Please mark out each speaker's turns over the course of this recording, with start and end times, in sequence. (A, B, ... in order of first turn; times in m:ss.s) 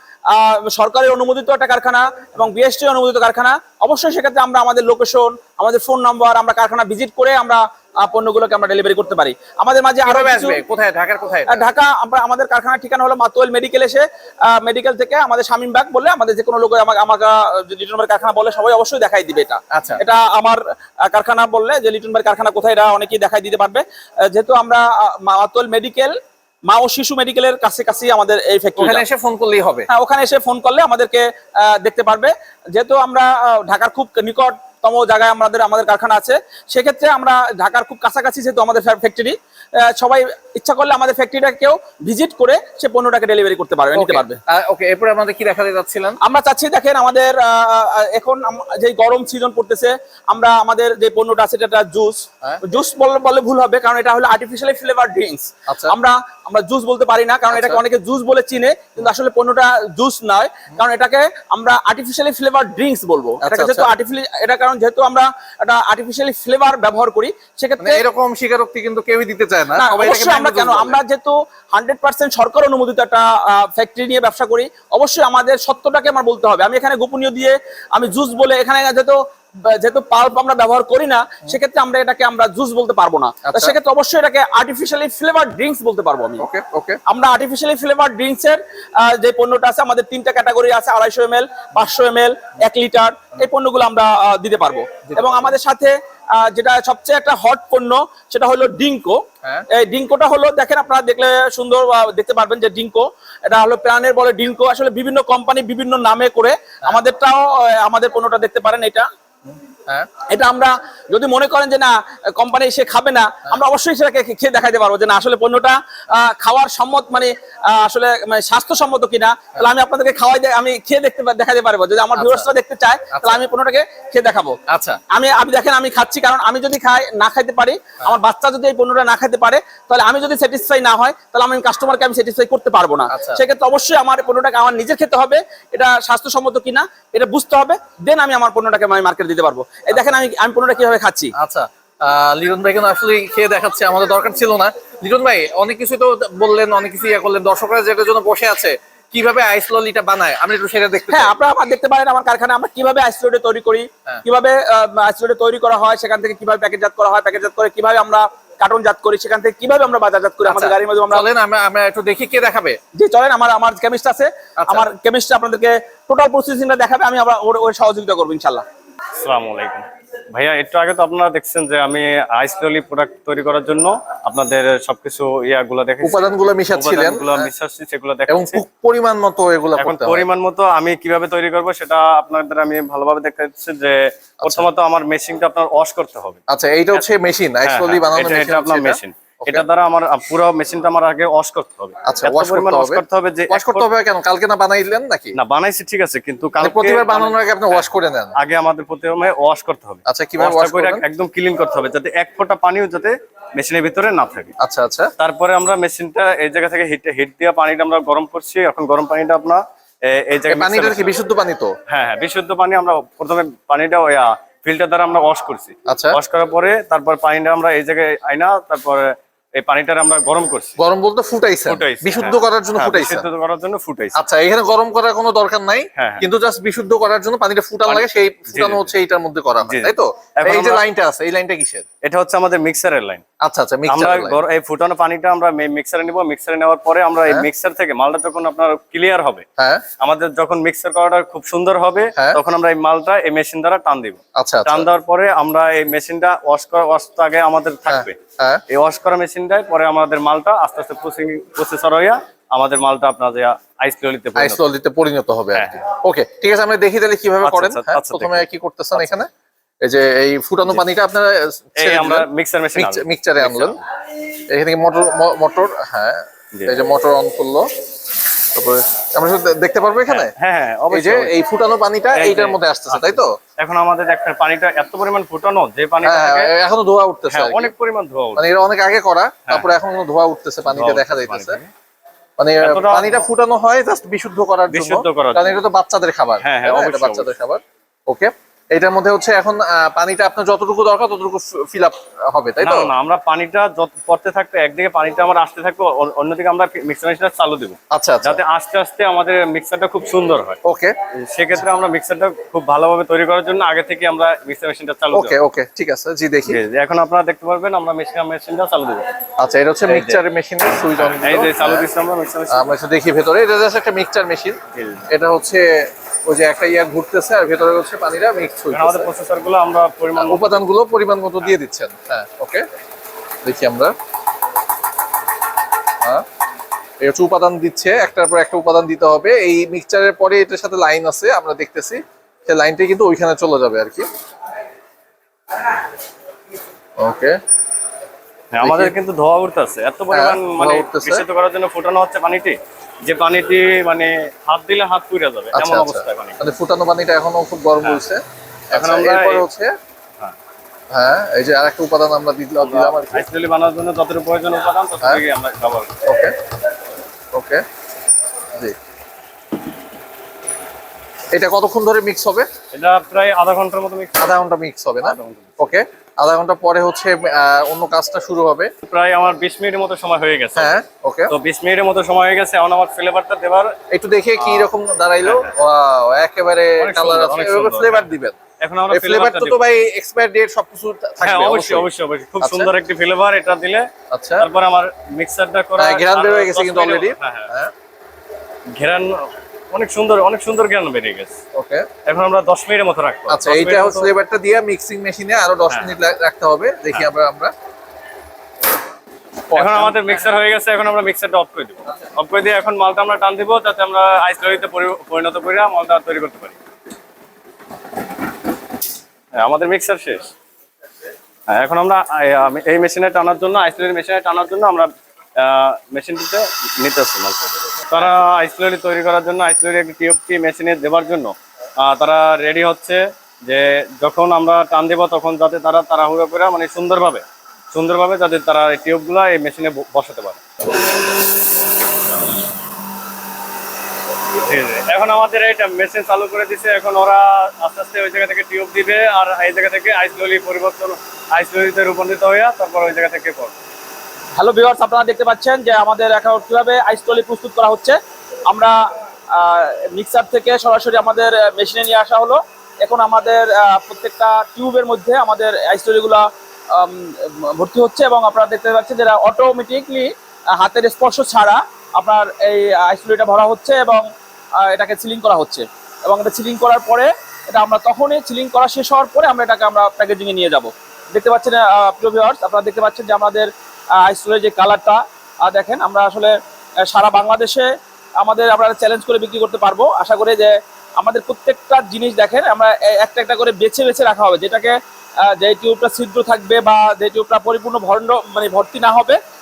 0:00.3-0:10.6 A
0:10.0-0:11.7 B
0:11.5-0:26.1 A
0:19.7-0:20.0 B
0:26.7-0:29.0 A
0:28.8-0:29.9 B
0:29.9-0:44.4 A
0:44.0-0:46.2 B
0:46.2-1:08.0 A
0:55.7-0:55.9 B
0:57.5-0:57.8 B
1:03.4-1:03.9 B
1:07.8-1:11.0 B
1:09.8-1:19.2 A
1:19.8-1:26.5 A
1:23.5-1:23.8 B
1:26.4-1:27.0 B
1:27.1-1:39.2 A
1:35.1-1:35.5 B
1:39.7-1:49.1 A
1:50.3-2:04.6 A
2:02.2-2:02.5 B
2:03.1-2:03.4 B
2:04.7-2:05.0 B
2:05.1-2:21.3 A
2:13.1-2:13.4 B
2:19.9-2:20.2 B
2:21.4-2:31.4 B
2:31.1-2:41.3 A
2:40.4-2:42.8 B
2:43.0-2:48.6 A
2:44.6-2:44.9 B
2:49.2-2:58.6 C
2:56.0-2:57.5 B
2:58.3-3:00.3 B
2:59.8-3:06.4 C
3:04.4-3:04.7 B
3:06.5-3:09.6 B
3:07.6-3:13.9 C
3:12.1-3:15.4 B
3:15.4-3:24.5 C
3:16.6-3:18.4 B
3:20.1-3:21.0 B
3:24.6-3:25.1 B
3:25.2-3:31.1 C
3:30.5-3:31.8 B
3:31.9-3:39.1 C
3:35.9-3:36.2 B
3:39.6-3:40.7 C
3:40.8-3:43.3 B
3:41.7-3:44.2 C
3:44.2-3:51.9 B
3:46.0-3:46.2 C
3:47.9-3:48.9 C
3:49.6-3:50.8 C
3:52.0-3:53.2 C
3:53.4-3:54.4 B
3:53.9-3:59.4 C
3:59.6-3:59.8 B
4:00.0-4:08.2 C
4:04.4-4:04.9 B
4:07.9-4:08.6 B
4:08.7-4:14.6 C
4:14.4-4:19.3 B
4:15.6-4:15.8 C
4:17.4-4:19.2 C
4:19.8-4:23.8 B
4:21.8-4:23.8 C
4:24.5-4:27.7 B
4:28.6-4:30.3 B
4:30.1-4:31.3 C
4:30.9-4:33.3 B
4:32.1-4:36.5 C
4:36.0-4:37.7 B
4:37.3-4:38.4 C
4:38.4-4:41.6 B
4:40.7-4:41.7 C
4:42.4-4:52.9 B
4:42.6-4:43.2 C
4:44.7-4:45.7 C
4:46.4-4:47.3 C
4:52.6-5:00.6 C
4:57.9-4:58.4 B
5:00.6-5:01.0 B
5:01.2-5:05.4 C
5:05.1-5:06.6 B
5:06.5-5:09.0 C
5:09.4-5:11.9 B
5:09.9-5:10.2 C
5:11.0-5:12.7 C
5:12.5-5:19.1 B
5:14.8-5:15.1 C
5:18.7-5:20.6 C
5:20.2-5:22.7 B
5:23.4-5:23.9 B
5:27.0-5:34.1 B
5:37.0-5:37.4 B
5:38.5-5:46.4 C
5:38.6-5:38.9 B
5:40.1-5:41.2 B
5:45.5-5:49.8 B
5:48.7-5:49.4 C
5:50.9-5:53.2 B
5:52.6-5:55.9 C
5:56.0-5:56.3 B
5:57.3-5:57.6 B
6:01.3-6:02.5 B
6:02.7-6:04.3 C
6:04.2-6:08.7 B
6:05.0-6:05.7 C
6:08.8-6:13.7 C
6:10.6-6:11.3 B
6:13.9-6:18.4 B
6:14.4-6:14.7 C
6:15.3-6:15.5 C
6:16.8-6:18.1 C
6:18.6-6:19.6 C
6:18.9-6:21.9 B
6:21.2-6:23.9 C
6:22.4-6:22.7 B
6:24.1-6:24.5 B
6:24.4-6:27.5 C
6:25.8-6:27.7 B
6:28.8-6:29.1 C
6:29.7-6:31.4 C
6:31.6-6:31.9 B
6:32.1-6:34.1 C
6:33.3-6:37.5 B
6:35.7-6:36.0 C
6:39.5-6:40.0 B
6:39.5-6:46.6 C
6:49.4-6:50.3 C
6:51.5-7:10.4 C
7:14.3-7:23.6 C
7:24.4-7:28.0 A
7:28.5-7:28.8 A
7:29.3-7:44.0 A
7:44.6-7:53.5 A
7:54.0-7:56.3 A
7:56.9-7:57.7 A
7:58.2-8:04.8 A
8:05.3-8:09.2 A